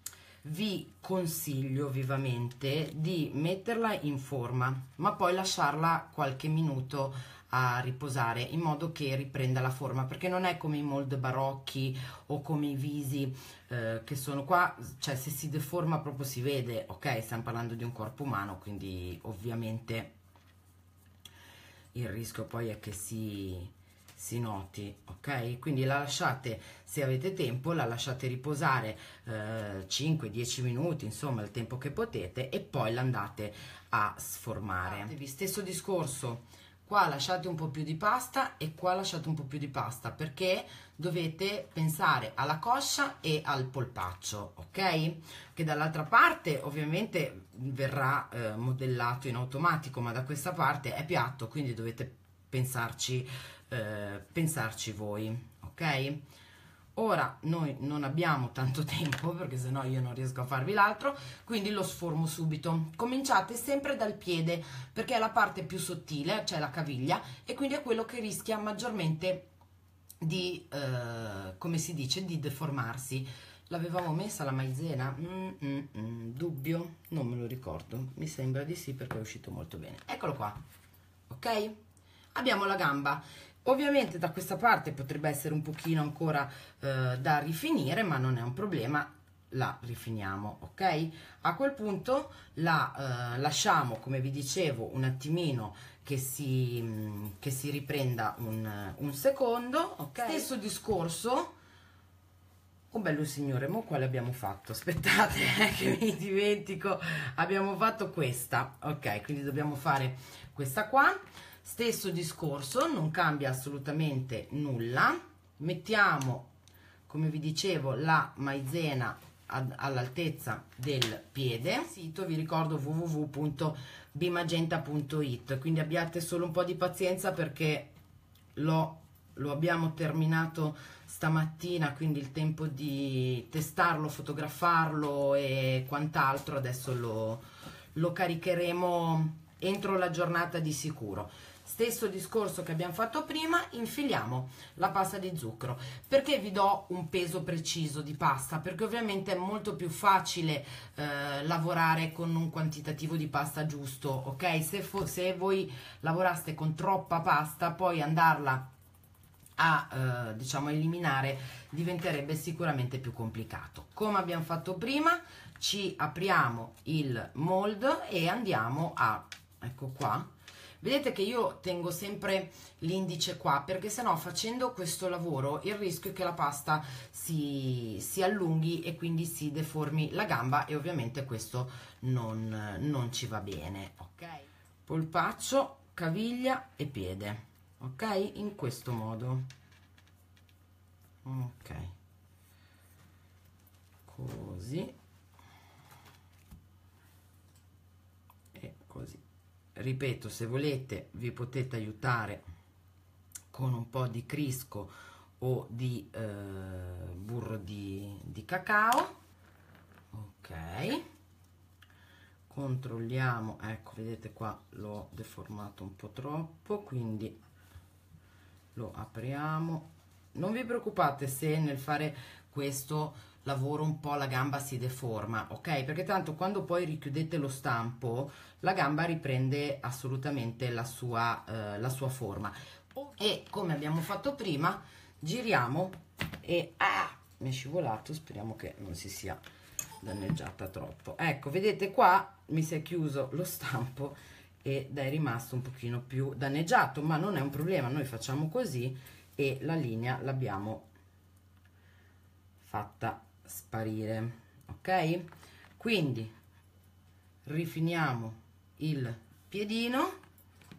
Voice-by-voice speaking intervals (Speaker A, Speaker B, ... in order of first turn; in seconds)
Speaker A: 0.4-20.1, 21.9-56.2, 57.0-69.5, 70.2-80.6, 81.3-81.8, 82.3-101.5, 102.9-116.5, 117.1-127.9, 128.5-158.7, 159.6-170.3, 170.8-189.5, 191.2-191.9, 194.1-194.9, 198.5-199.2, 199.7-202.4, 203.5-209.2, 210.1-211.0, 212.5-217.4, 218.7-239.4, 240.0-250.9, 252.6-256.3, 257.4-260.2